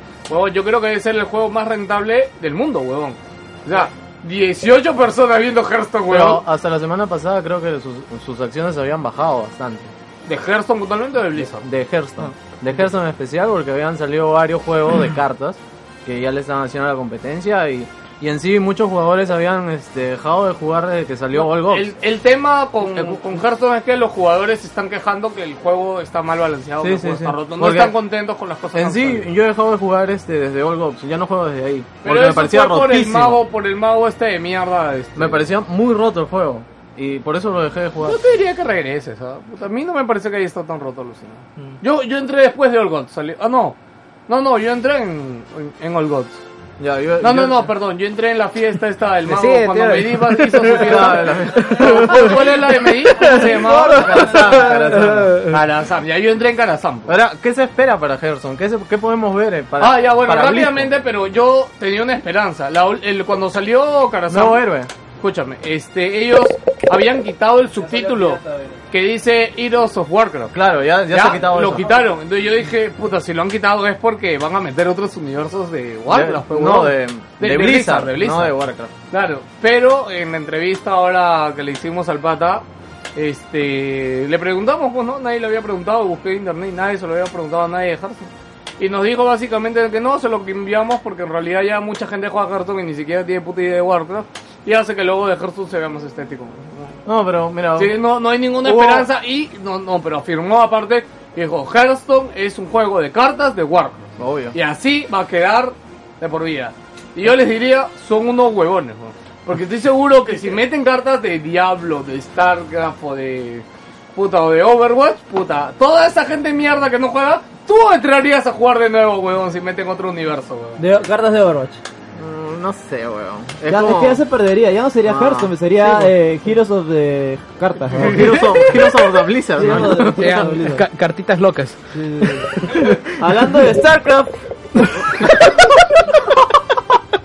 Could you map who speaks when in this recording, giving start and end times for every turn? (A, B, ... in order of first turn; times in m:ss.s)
0:00.3-0:06.4 A
0:06.1-0:09.9 B
0:10.2-0:11.6 A
0:11.4-0:21.9 B
0:21.3-0:29.3 A
0:22.9-0:23.2 B
0:26.8-0:28.0 B
0:28.7-0:33.4 B
0:32.0-0:35.5 A
0:35.2-0:38.2 B
0:38.0-0:43.8 A
0:44.3-0:46.4 A
0:46.8-0:47.7 B
0:47.2-0:54.7 A
0:49.2-0:51.1 C
0:50.6-0:52.5 B
0:51.8-0:52.4 C
0:53.0-0:53.4 C
0:53.3-0:55.1 D
0:53.7-0:55.4 B
0:54.1-0:55.6 C
0:55.4-0:57.1 A
0:57.1-1:00.9 B
0:59.8-1:04.6 A
1:04.3-1:04.9 B
1:05.2-1:10.6 A
1:07.8-1:08.8 D
1:10.5-1:11.9 B
1:11.1-1:18.6 A
1:16.1-1:18.9 B
1:19.1-1:22.6 A
1:23.1-1:28.3 A
1:28.8-1:37.0 A
1:37.0-1:38.0 B
1:37.7-2:00.8 A
1:38.6-1:39.1 B
1:44.2-1:44.6 B
2:00.8-2:01.8 D
2:02.1-2:04.2 B
2:03.6-2:08.6 D
2:05.0-2:05.5 B
2:08.0-2:10.6 B
2:09.5-2:10.8 D
2:09.7-2:11.8 C
2:11.9-2:15.5 D
2:12.5-2:13.1 C